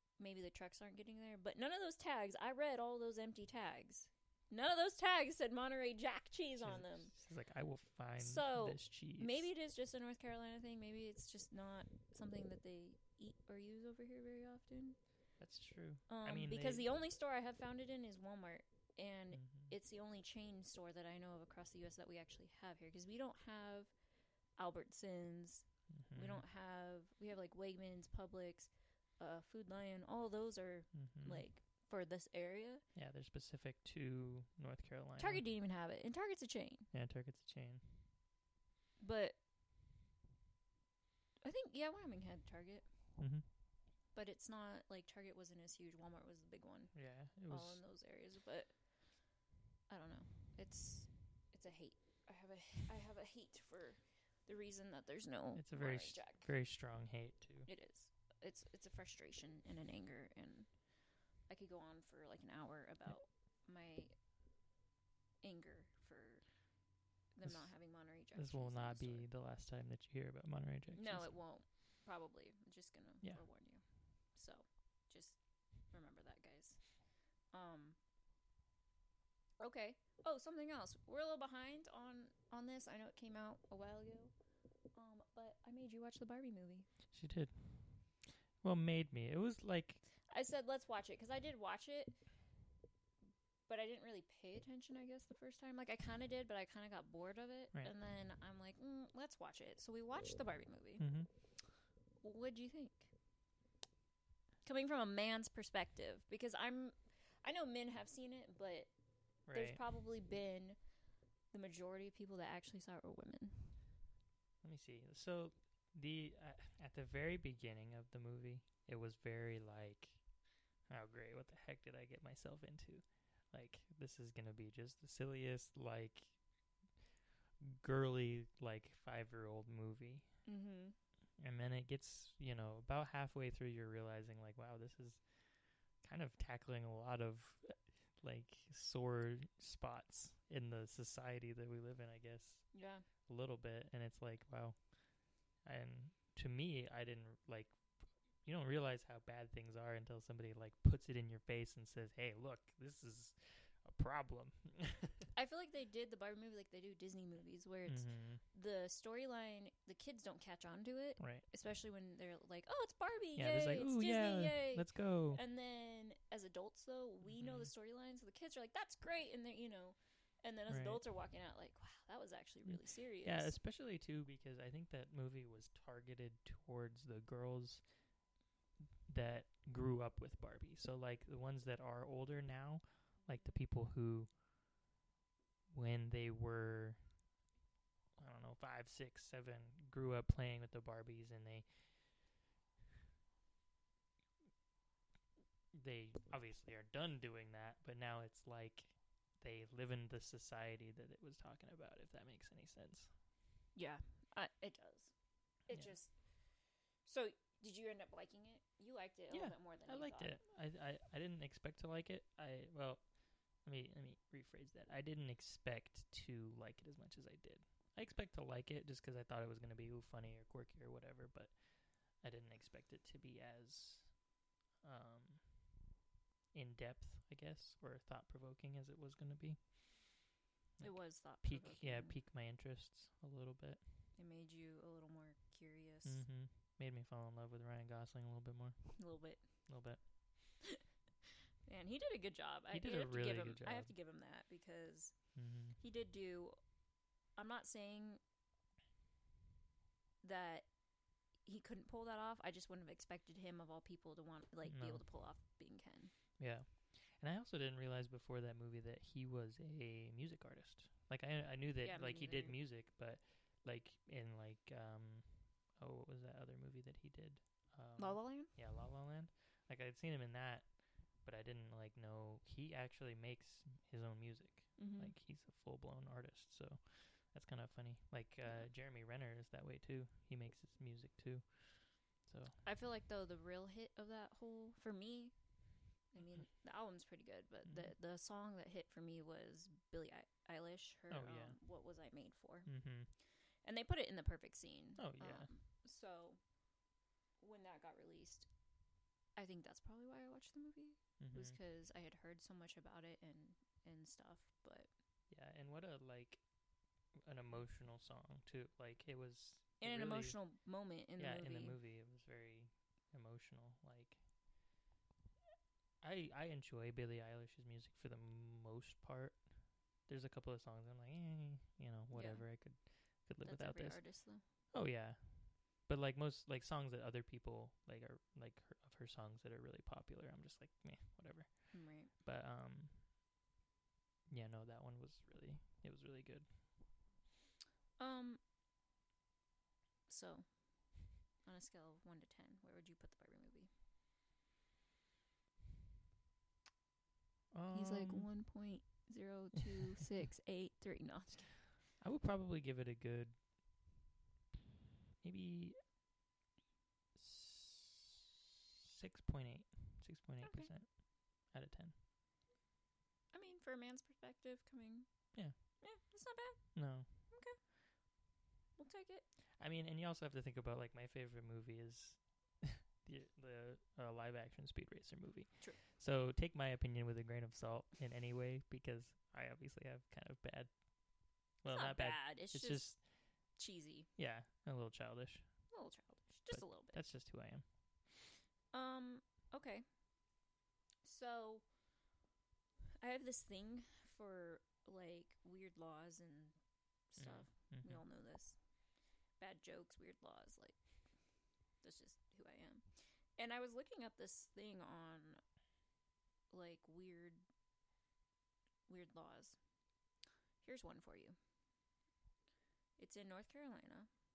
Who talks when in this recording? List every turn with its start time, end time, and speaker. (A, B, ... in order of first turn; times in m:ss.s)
0:00.2-0:07.1 A
0:06.6-0:09.5 B
0:08.2-0:15.0 A
0:15.4-0:16.8 B
0:16.1-0:23.9 A
0:19.3-0:19.7 B
0:24.6-0:32.8 A
0:25.9-0:26.4 B
0:30.9-0:31.4 B
0:32.9-0:35.4 B
0:35.2-0:36.9 A
0:36.9-0:37.8 B
0:39.0-0:39.4 A
0:41.4-0:42.8 A
0:43.2-0:43.4 B
0:44.1-0:46.9 A
0:46.9-0:47.8 B
0:47.5-0:48.7 A
0:49.9-0:56.5 A
0:55.5-0:57.7 B
0:57.7-1:00.7 A
1:01.5-1:04.1 A
1:05.4-1:06.4 A
1:07.3-1:09.2 A
1:07.4-1:07.7 B
1:08.3-1:11.3 B
1:10.9-1:13.8 A
1:14.3-1:16.8 A
1:17.5-1:18.0 A
1:19.6-1:24.3 A
1:24.9-1:26.9 A
1:27.1-1:28.1 B
1:28.6-1:30.0 B
1:30.3-1:32.2 A
1:33.7-1:41.1 A
1:41.0-1:41.3 B
1:42.2-1:43.1 A
1:44.6-1:48.9 A
1:49.5-1:49.8 B
1:49.5-1:50.8 A
1:51.5-1:53.8 A
1:54.6-2:00.2 B
2:00.9-2:06.3 B
2:07.6-2:10.3 B
2:10.4-2:11.0 A
2:11.4-2:15.2 B
2:16.0-2:22.7 B
2:22.7-2:23.0 A
2:23.3-2:24.8 B
2:25.6-2:27.8 B
2:28.4-2:35.3 B
2:35.3-2:53.6 A
2:37.9-2:38.4 B
2:41.2-2:41.4 B
2:43.4-2:45.4 B
2:47.3-2:47.7 B
2:50.7-2:51.0 B
2:52.6-2:57.8 B
2:59.1-3:04.3 B
3:05.7-3:07.0 B
3:08.2-3:11.7 B
3:15.7-3:23.1 B
3:23.7-3:25.1 A
3:25.7-3:26.1 A
3:27.0-3:30.4 A
3:29.3-3:33.0 B
3:33.6-3:41.5 B
3:42.2-3:44.2 B
3:44.8-3:45.4 B
3:46.5-3:49.6 B
3:50.8-3:53.8 B
3:50.8-3:52.2 A
3:54.2-3:56.2 A
3:56.0-3:59.0 B
3:59.0-3:59.4 A
3:59.7-4:00.0 B
4:01.6-4:05.1 A
4:02.7-4:03.9 B
4:05.3-4:05.8 B
4:05.8-4:06.6 A
4:07.4-4:08.2 A
4:10.2-4:10.7 A
4:11.4-4:16.1 A
4:14.6-4:15.0 B
4:16.4-4:30.7 B
4:21.8-4:22.6 A
4:28.0-4:28.5 A
4:31.2-4:42.6 B
4:34.8-4:35.1 A
4:42.6-4:45.3 A
4:46.1-4:52.7 A
4:47.6-4:47.9 B
4:51.1-4:51.6 B
4:52.6-4:53.1 B
4:53.6-4:56.4 A
4:55.0-4:55.5 B
4:57.4-4:58.5 A
4:59.4-5:04.9 A
5:01.2-5:01.6 B
5:05.3-5:06.4 B
5:07.2-5:10.4 B
5:09.8-5:11.8 A
5:11.2-5:14.2 B
5:16.0-5:19.4 B
5:20.1-5:24.0 B
5:22.1-5:22.4 A
5:23.4-5:24.4 A
5:24.7-5:32.9 B
5:31.7-5:32.1 A
5:34.3-5:36.4 B
5:38.0-5:38.4 A
5:40.1-5:40.5 A
5:41.4-5:43.7 A
5:47.5-5:48.3 B
5:47.7-5:51.6 A
5:49.7-5:50.0 B
5:52.0-5:53.3 B
5:55.2-5:55.8 B
5:57.1-6:01.9 B
6:00.4-6:00.7 A
6:03.3-6:05.1 A
6:05.7-6:07.6 A
6:06.7-6:07.1 B
6:08.8-6:09.2 A
6:09.6-6:20.7 B
6:21.6-6:23.0 B
6:21.7-6:22.9 A
6:23.6-6:24.1 A
6:24.2-6:25.4 B
6:25.7-6:27.0 A
6:26.5-6:27.6 B
6:28.7-6:29.8 A
6:31.0-6:31.6 A
6:33.0-6:36.6 A
6:37.1-6:38.6 A
6:37.2-6:38.0 B
6:39.4-6:40.8 A
6:41.8-6:42.8 A
6:43.4-6:45.4 A
6:46.5-6:47.4 A
6:48.9-6:49.6 A
6:50.6-6:51.4 A
6:53.0-6:54.1 A